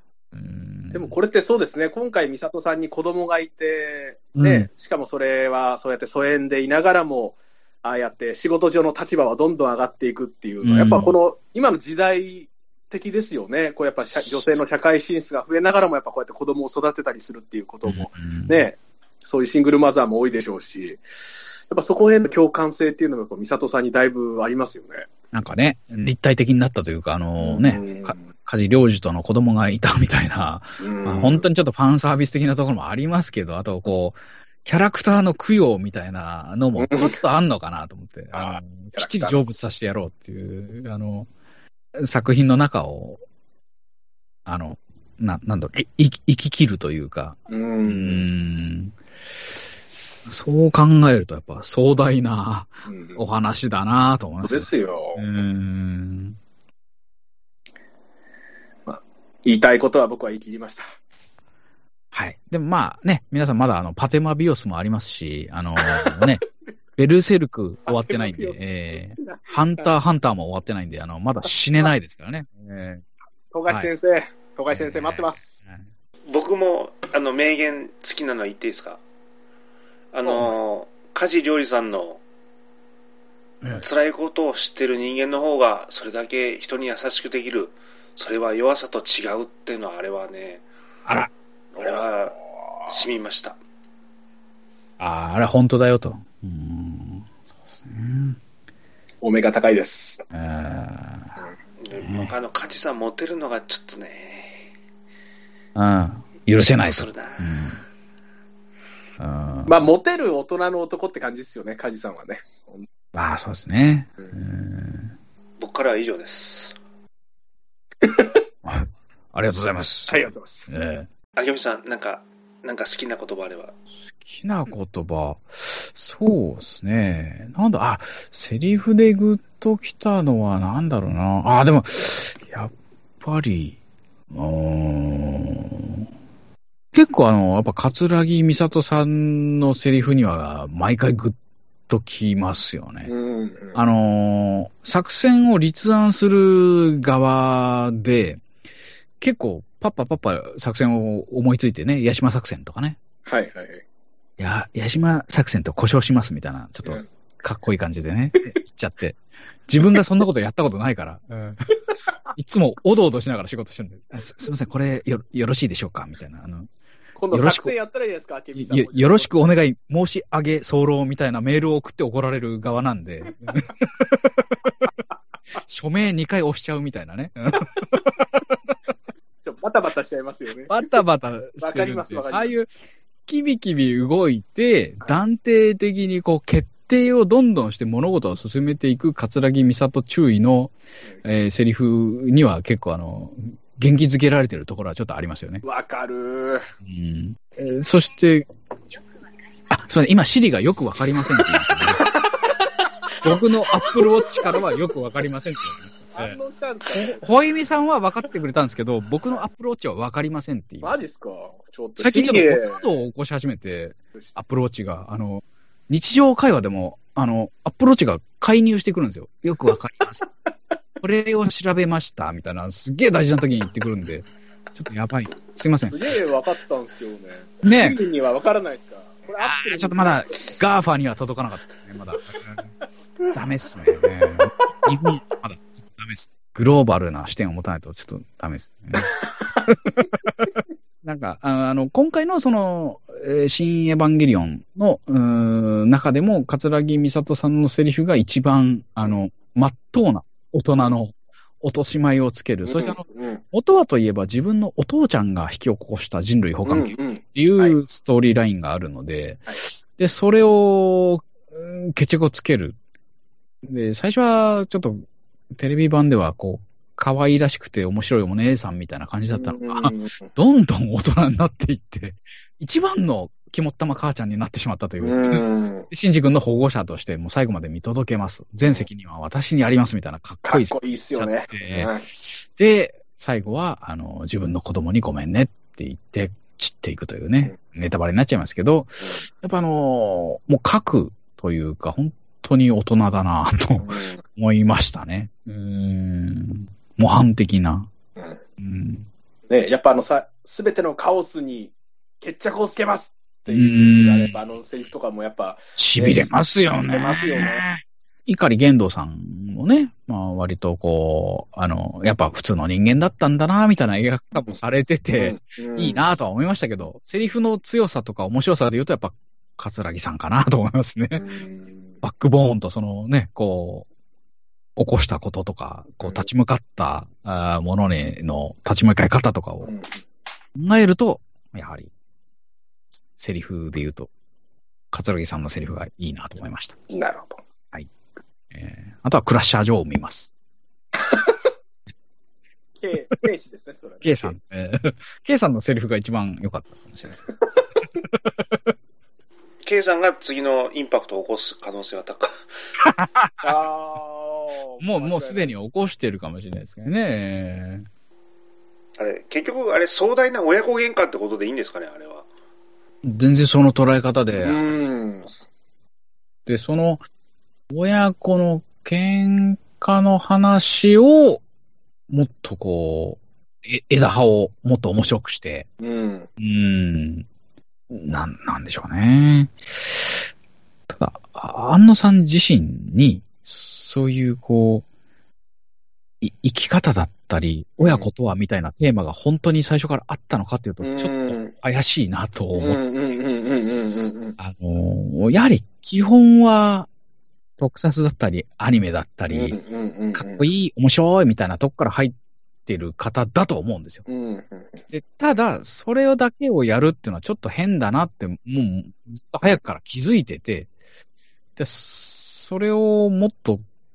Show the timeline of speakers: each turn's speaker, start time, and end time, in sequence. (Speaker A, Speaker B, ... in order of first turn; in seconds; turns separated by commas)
Speaker A: 0.3-1.1, Speaker B: 0.9-21.0, Speaker A: 4.3-4.7, Speaker A: 10.6-11.1, Speaker A: 14.0-14.6, Speaker A: 17.9-18.6, Speaker B: 21.7-25.1, Speaker A: 25.3-41.3, Speaker B: 27.4-28.3, Speaker B: 30.8-31.4, Speaker B: 36.8-37.2, Speaker B: 38.3-39.4, Speaker A: 41.9-43.2, Speaker A: 44.5-48.9, Speaker B: 47.5-48.3, Speaker A: 50.2-56.4, Speaker B: 52.8-53.2, Speaker B: 54.4-55.2, Speaker B: 58.9-60.9, Speaker A: 62.1-66.4, Speaker B: 65.8-66.2, Speaker A: 67.0-73.1, Speaker B: 67.9-69.9, Speaker B: 73.5-75.6, Speaker A: 74.7-75.8, Speaker C: 76.3-79.0, Speaker C: 80.1-82.2, Speaker C: 83.8-90.6, Speaker A: 91.0-91.3, Speaker C: 91.8-92.4, Speaker C: 92.9-93.6, Speaker A: 95.0-97.2, Speaker A: 97.8-98.4, Speaker B: 99.2-100.2, Speaker A: 100.3-101.3, Speaker C: 101.8-104.6, Speaker A: 102.0-102.3, Speaker A: 105.7-107.8, Speaker C: 106.8-107.6, Speaker A: 109.2-109.7, Speaker B: 109.7-112.8, Speaker A: 113.1-115.1, Speaker C: 115.6-116.7, Speaker B: 118.0-118.3, Speaker A: 118.6-121.1, Speaker B: 120.1-120.7, Speaker C: 121.3-123.7, Speaker A: 124.0-133.8, Speaker A: 134.3-136.0, Speaker A: 136.9-141.4, Speaker A: 141.9-143.1, Speaker B: 143.0-143.8, Speaker A: 143.7-148.4, Speaker A: 149.2-153.0, Speaker B: 153.2-153.8, Speaker A: 154.4-161.6, Speaker A: 162.3-166.7, Speaker B: 167.2-169.4, Speaker A: 167.3-167.7, Speaker A: 168.6-174.8, Speaker A: 175.6-178.2, Speaker B: 179.4-180.8, Speaker A: 180.7-182.7, Speaker B: 181.6-182.5, Speaker A: 183.2-195.6, Speaker B: 195.6-196.7, Speaker A: 196.8-198.5, Speaker A: 199.7-202.2, Speaker B: 202.0-202.7, Speaker A: 203.2-206.4, Speaker B: 204.3-204.6, Speaker B: 206.1-207.2, Speaker A: 206.9-211.0, Speaker B: 210.8-212.9, Speaker A: 212.0-220.2, Speaker A: 221.0-226.1, Speaker B: 225.9-230.2, Speaker A: 227.6-228.0, Speaker A: 229.4-232.7, Speaker A: 233.3-262.8, Speaker B: 252.6-253.4, Speaker B: 256.6-257.8, Speaker A: 263.6-297.9, Speaker B: 269.3-270.3, Speaker B: 275.0-275.9, Speaker B: 280.4-282.1, Speaker B: 289.0-289.3, Speaker B: 293.8-294.2, Speaker A: 298.6-299.1, Speaker B: 299.5-306.3, Speaker A: 303.5-304.4, Speaker A: 305.8-321.2, Speaker B: 306.9-307.6, Speaker B: 315.2-316.0, Speaker B: 321.1-322.0, Speaker A: 322.0-323.9, Speaker A: 324.8-329.7, Speaker B: 329.6-330.0, Speaker A: 330.5-331.9, Speaker A: 333.2-334.1, Speaker A: 334.9-336.8, Speaker B: 336.9-337.4, Speaker A: 338.5-340.3, Speaker B: 342.8-344.4, Speaker A: 344.0-347.2, Speaker C: 349.6-352.4, Speaker A: 352.8-353.5, Speaker B: 353.4-355.5, Speaker A: 354.8-357.9, Speaker C: 359.0-362.3, Speaker A: 363.0-364.6, Speaker B: 364.4-365.4, Speaker A: 366.4-367.0, Speaker A: 367.7-371.4, Speaker A: 372.1-375.7, Speaker B: 375.8-376.3, Speaker A: 376.4-377.2, Speaker A: 377.9-380.2, Speaker A: 380.9-384.9, Speaker A: 386.2-392.8, Speaker B: 387.8-388.1, Speaker B: 390.8-391.5, Speaker B: 392.5-394.4, Speaker A: 394.4-396.9, Speaker A: 397.6-399.6, Speaker B: 399.3-400.4, Speaker A: 400.1-404.0, Speaker B: 404.1-404.8, Speaker A: 404.9-410.7, Speaker A: 411.6-413.6